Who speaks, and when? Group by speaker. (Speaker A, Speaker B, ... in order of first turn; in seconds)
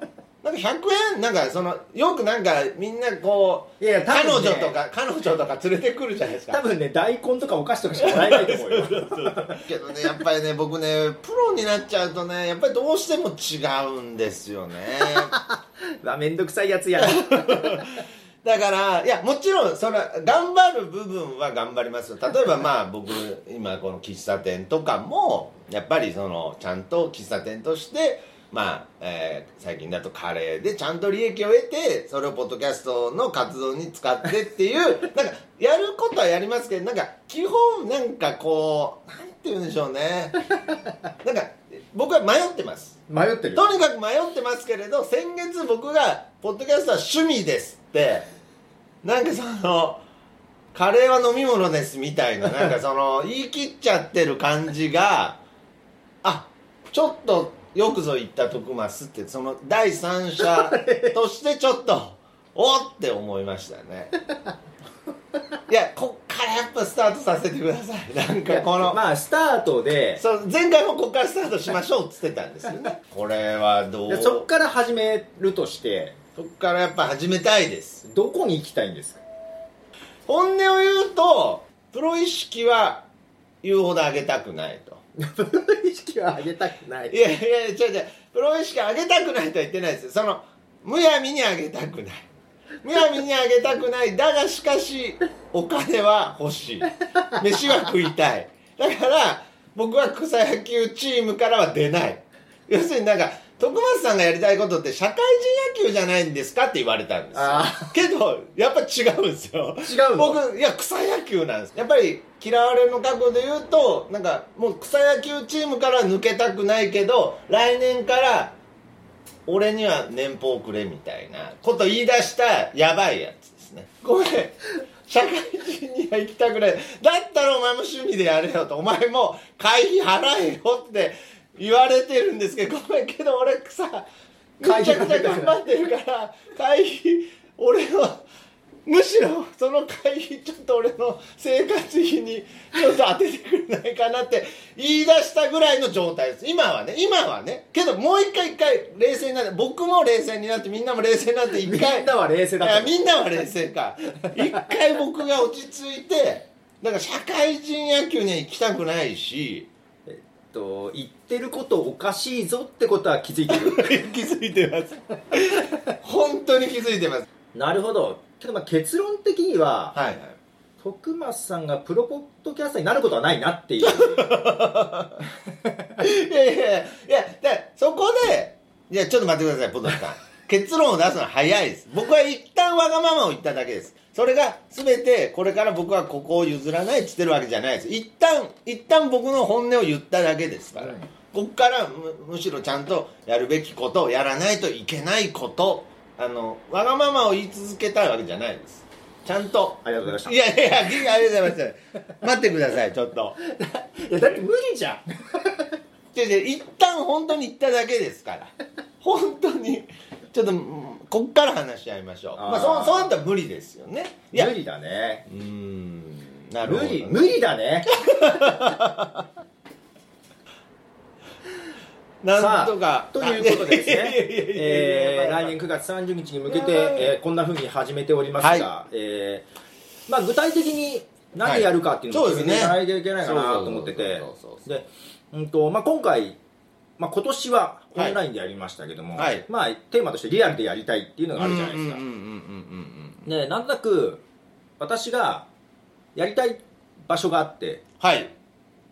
Speaker A: 0.4-6.6, 8.0-15.3, 17.0-40.5, 41.2-43.0, 43.5-48.3, 49.0-50.0, 50.7-55.4, 56.2-64.1, 65.7-69.0, 70.2-74.5, 76.4-78.0, 80.3-83.1, 83.6-85.0, 87.1-92.3, 92.8-118.6, 119.5-138.2, 138.9-159.7, 163.5-167.3, 169.9-170.4, 173.8-175.3, 176.0-203.4, 206.1-214.5, 215.3-217.4, 217.9-219.2, 222.2-225.6, 226.5-227.2, 228.4-228.7, 231.4-234.7, 239.2-239.4, 241.4-243.3, 248.0-248.3
Speaker B: 3.8-4.8, 6.5-9.6, 15.2-17.9, 43.1-43.6, 60.4-61.2, 68.5-70.2, 74.1-76.2, 78.0-79.2, 85.2-87.2, 107.3-108.0, 109.8-110.4, 134.6-135.5, 151.6-152.9, 160.1-163.8, 167.5-170.0, 170.8-174.3, 190.8-191.1, 199.8-200.4, 203.4-205.7, 212.4-213.1, 214.3-215.2, 216.6-218.6, 222.4-229.5, 230.1-236.4, 237.0-242.0, 243.2-244.2, 244.8-245.5, 246.1-247.8